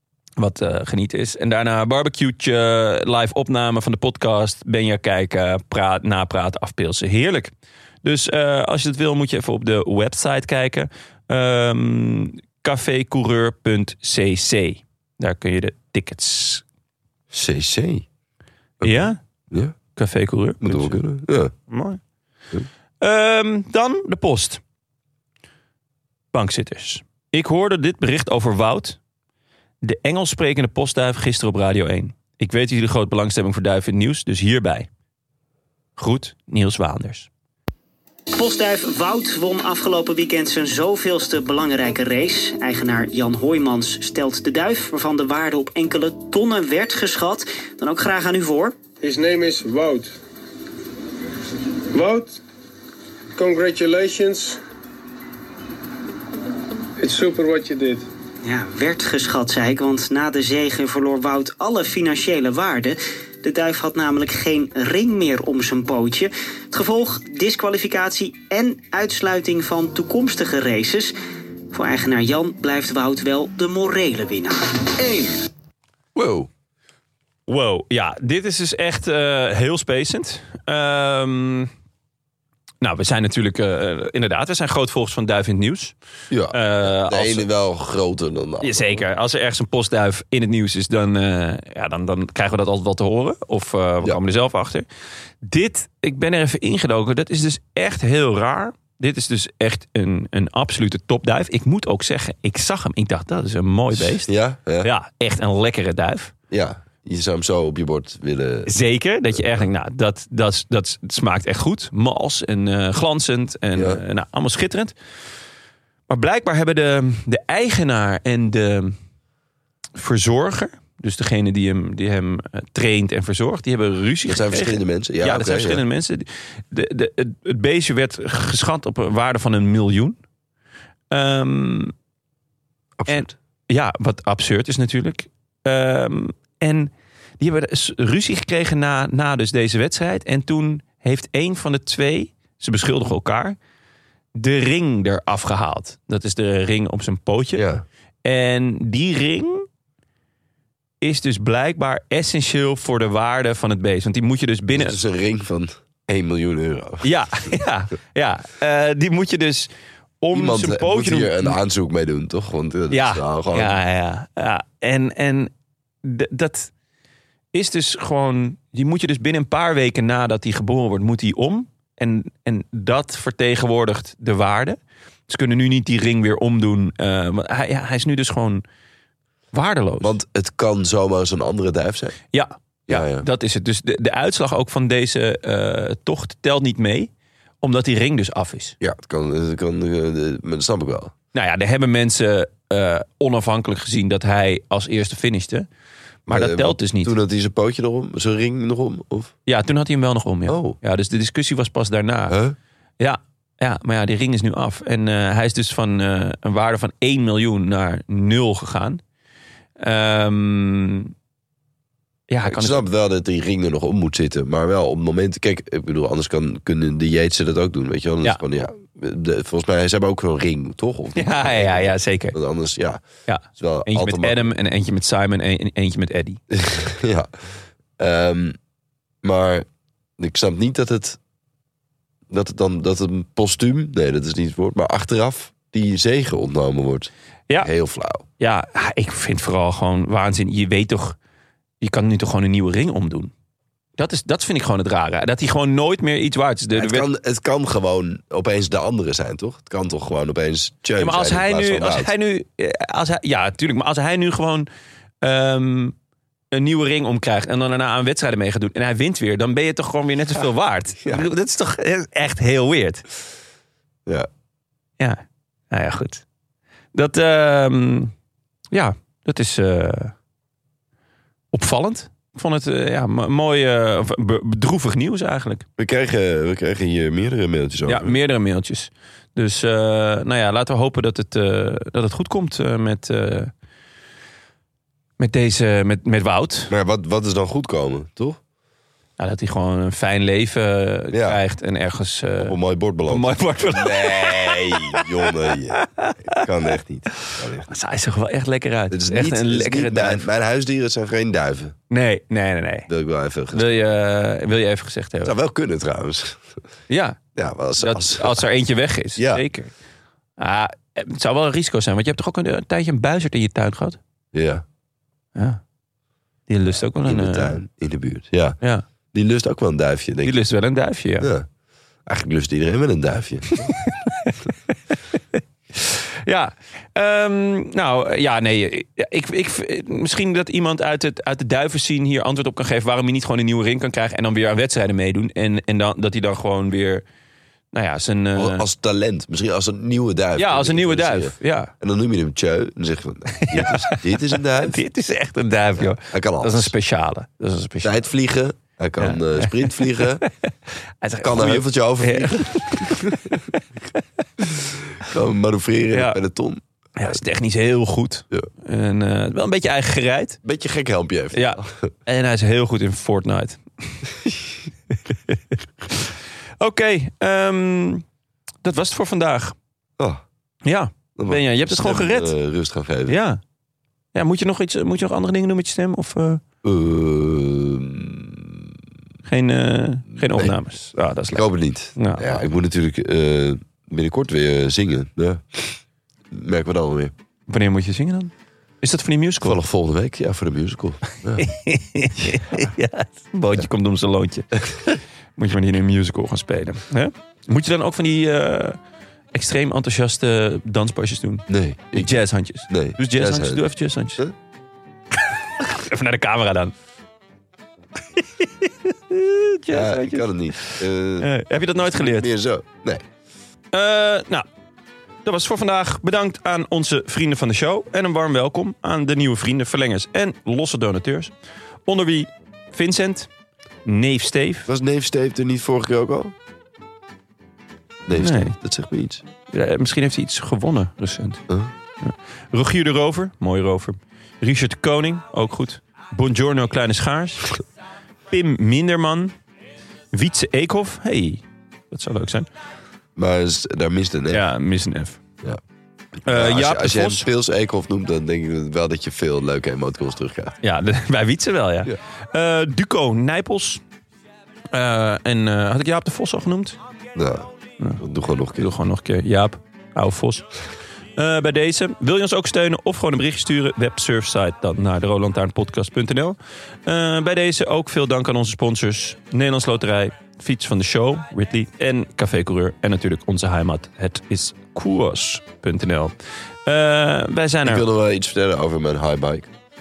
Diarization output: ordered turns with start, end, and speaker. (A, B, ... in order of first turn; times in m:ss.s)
0:00.4-0:07.5 A
0:08.0-0:16.6 A
0:17.3-0:18.1 B
0:18.8-0:19.8 B
0:18.8-0:19.2 A
0:20.0-0:21.0 A
0:20.6-0:21.5 B
0:21.7-0:22.0 A
0:23.0-0:24.6 A
0:26.3-0:29.0 A
0:29.8-0:34.9 A
0:36.0-0:37.3 A
0:38.4-0:48.8 C
0:49.0-0:50.2 D
0:51.9-0:52.4 D
0:53.4-0:54.6 D
0:57.0-0:58.0 D
0:58.4-1:11.1 C
1:11.7-1:15.4 C
1:16.2-1:16.5 B
1:17.5-1:21.7 A
1:22.8-1:26.0 A
1:26.3-1:29.0 B
1:26.5-1:27.5 A
1:28.6-1:34.9 A
1:35.4-1:46.3 A
1:43.9-1:44.9 B
1:46.5-1:48.7 B
1:48.7-1:54.9 A
1:49.3-1:49.7 B
1:53.7-1:54.0 B
1:56.1-1:59.0 A
2:00.0-2:10.2 A
2:04.3-2:05.8 B
2:11.1-2:11.9 A
2:13.0-2:13.3 B
2:13.1-2:23.6 A
2:24.3-2:27.6 A
2:27.5-2:27.8 B
2:28.2-2:29.7 A
2:31.0-2:35.0 A
2:34.8-2:37.1 B
2:37.0-2:39.7 A
2:40.2-2:41.6 A
2:40.3-2:43.8 B
2:42.9-2:45.5 A
2:46.0-2:46.7 A
2:47.5-2:58.6 A
2:59.5-3:00.2 A
3:00.0-3:02.2 B
3:02.3-3:08.8 A
3:02.9-3:03.3 B
3:08.8-3:11.1 B
3:11.3-3:15.7 A
3:16.3-3:17.1 A
3:16.3-3:19.3 B
3:19.5-3:22.4 A
3:20.5-3:20.8 B
3:22.3-3:22.6 B
3:23.0-3:29.0 A
3:29.8-3:31.1 A
3:32.3-3:32.8 A
3:32.5-3:44.5 B
3:41.2-3:42.4 A
3:43.3-3:46.4 A
3:46.5-3:47.3 B
3:48.0-3:48.6 B
3:49.2-3:49.7 B
3:50.2-3:51.2 B
3:52.3-3:58.2 B
3:58.4-4:01.2 A
4:01.8-4:03.3 A
4:04.0-4:07.1 A
4:06.7-4:12.1 B
4:11.0-4:14.7 A
4:15.2-4:16.0 A
4:16.5-4:23.0 A
4:25.0-4:26.2 A
4:26.9-4:28.1 A
4:28.7-4:30.2 A
4:31.5-4:35.7 A
4:35.8-4:38.2 B
4:37.9-4:43.5 A
4:45.2-4:46.7 A
4:46.7-4:48.4 B
4:49.2-5:00.3 A
4:51.1-4:51.4 B
4:52.4-4:57.7 B
4:58.9-5:01.8 B
5:01.9-5:02.9 A
5:02.9-5:03.7 B
5:03.5-5:05.4 A
5:05.2-5:06.4 B
5:06.9-5:07.2 A
5:07.4-5:08.4 B
5:07.8-5:09.7 A
5:09.2-5:09.4 B
5:10.4-5:14.0 A
5:14.3-5:14.6 B
5:15.4-5:15.6 A
5:16.5-5:17.6 A
5:17.0-5:18.6 B
5:18.6-5:18.9 A
5:19.1-5:20.3 B
5:20.2-5:21.3 A
5:21.2-5:21.5 B
5:22.1-5:23.7 B
5:23.6-5:24.4 A
5:25.2-5:37.0 A
5:37.7-5:38.6 A
5:38.3-5:44.8 B
5:40.4-5:41.7 A
5:43.3-5:48.0 A
5:45.8-5:46.7 B
5:47.8-5:50.2 B
5:49.0-5:54.0 A
5:51.2-5:53.4 B
5:54.4-5:57.2 B
5:55.9-5:56.2 A
5:57.0-6:00.4 A
6:00.4-6:01.9 B
6:01.3-6:04.1 A
6:05.9-6:08.0 A
6:08.6-6:09.6 A
6:10.0-6:10.2 B
6:10.6-6:12.3 A
6:11.2-6:13.2 B
6:13.1-6:13.4 A
6:14.1-6:16.4 A
6:16.6-6:18.6 B
6:19.2-6:22.4 A
6:20.2-6:20.5 B
6:21.3-6:25.8 B
6:26.3-6:27.1 B
6:27.5-6:29.6 A
6:29.4-6:31.5 B
6:31.3-6:34.6 A
6:35.4-6:38.8 A
6:39.3-6:44.3 A
6:41.5-6:43.6 B
6:45.3-6:46.7 A
6:48.2-6:52.3 A
6:49.7-6:53.0 B
6:53.7-6:54.5 A
6:55.2-7:01.3 A
7:01.9-7:03.3 A
7:03.8-7:04.7 A
7:04.7-7:06.4 B
7:08.1-7:09.2 B
7:08.2-7:08.6 A
7:09.5-7:11.4 A
7:12.0-7:17.6 A
7:18.3-7:19.3 A
7:20.1-7:22.5 A
7:23.2-7:24.4 B
7:24.3-7:25.2 A
7:26.2-7:30.6 B
7:26.2-7:27.3 A
7:30.6-7:33.8 A
7:34.7-7:36.8 A
7:37.1-7:38.7 B
7:38.6-7:40.5 A
7:41.2-7:56.1 A
7:56.6-7:57.9 A
7:57.6-7:59.5 B